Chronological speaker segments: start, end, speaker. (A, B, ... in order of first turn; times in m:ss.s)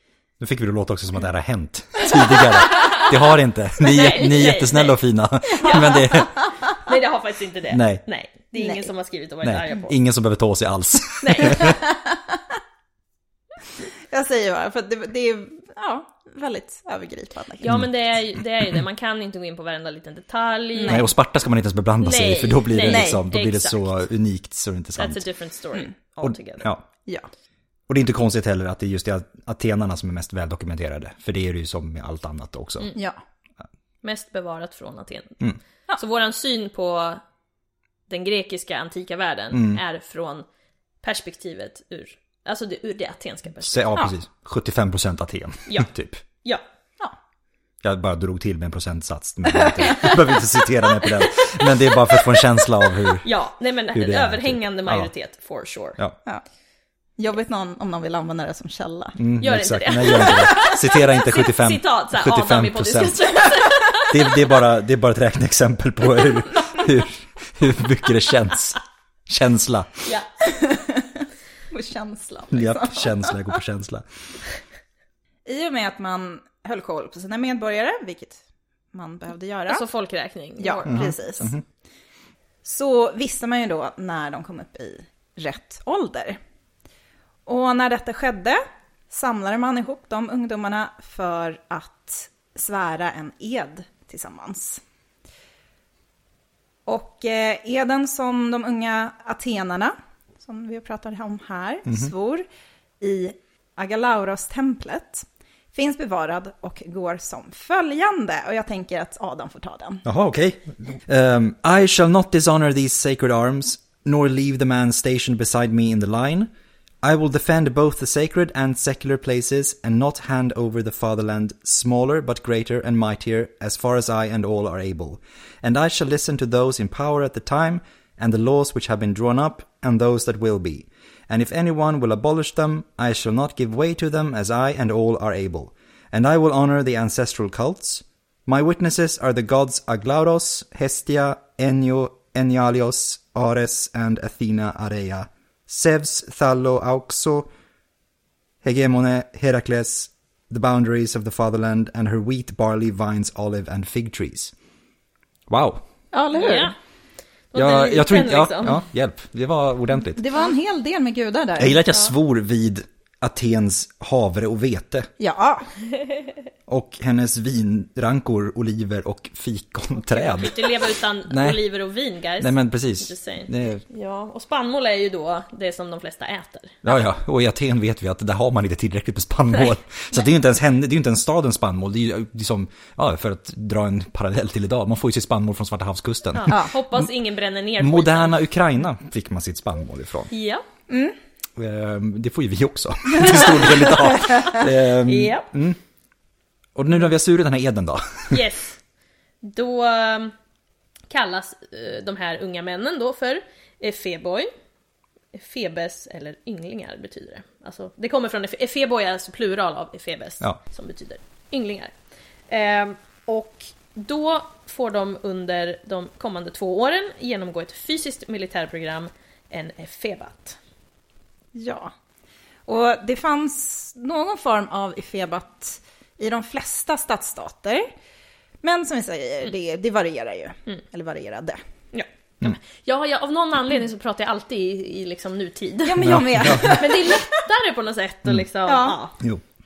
0:00.4-0:06.4 A
0:02.7-0:03.1 B
0:03.8-0:05.0 B
0:05.5-0:10.0 B
0:07.7-0:08.0 A
0:08.6-0:08.9 C
0:09.4-0:11.8 A
0:11.2-0:11.7 B
0:11.4-0:12.4 C
0:14.1-0:17.8 C
0:17.6-0:21.1 B
0:20.8-0:21.1 C
0:20.9-0:25.2 A
0:22.0-0:23.8 B
0:22.9-0:23.2 C
0:25.0-0:26.7 B
0:26.2-0:26.8 A
0:27.9-0:32.9 A
0:32.9-0:33.2 C
0:34.0-0:35.4 B
0:36.0-0:37.2 B
0:38.1-0:40.4 B
0:39.5-0:39.8 A
0:41.0-0:44.0 B
0:43.6-0:46.2 A
0:47.8-0:53.3 A
0:49.5-0:50.2 C
0:53.2-0:56.0 B
0:54.0-0:55.1 A
0:57.2-0:59.2 C
0:59.2-1:10.0 A
0:59.4-1:04.5 B
1:06.2-1:06.9 B
1:10.5-1:13.6 C
1:12.5-1:14.0 A
1:15.5-1:19.9 C
1:19.7-1:21.5 B
1:20.6-1:21.5 C
1:20.9-1:21.6 A
1:22.6-1:26.4 C
1:27.5-1:34.8 C
1:36.9-1:42.5 C
1:43.0-1:50.0 C
1:50.0-1:56.5 A
1:57.0-2:27.5 A
2:28.6-2:34.5 A
2:35.5-2:35.8 A
2:36.1-2:36.7 C
2:36.3-2:36.8 B
2:37.5-2:38.8 B
2:37.5-2:40.2 A
2:40.1-2:41.8 C
2:41.6-2:45.1 A
2:45.2-2:45.7 C
2:46.7-2:51.6 A
2:50.1-2:57.0 B
2:52.4-2:53.8 A
2:56.8-3:07.1 A
3:06.4-3:08.4 B
3:07.8-3:10.3 A
3:10.3-3:10.6 B
3:10.9-3:11.2 C
3:11.6-3:15.8 A
3:13.8-3:15.5 B
3:16.8-3:18.4 A
3:18.3-3:18.7 B
3:19.4-3:20.3 B
3:21.1-3:24.5 B
3:25.3-3:31.9 B
3:32.5-3:40.6 B
3:41.5-3:41.9 C
3:42.7-3:47.9 C
3:48.6-3:51.6 C
3:51.9-3:59.2 B
3:55.8-3:57.4 C
3:56.0-3:56.8 A
3:58.6-3:59.0 C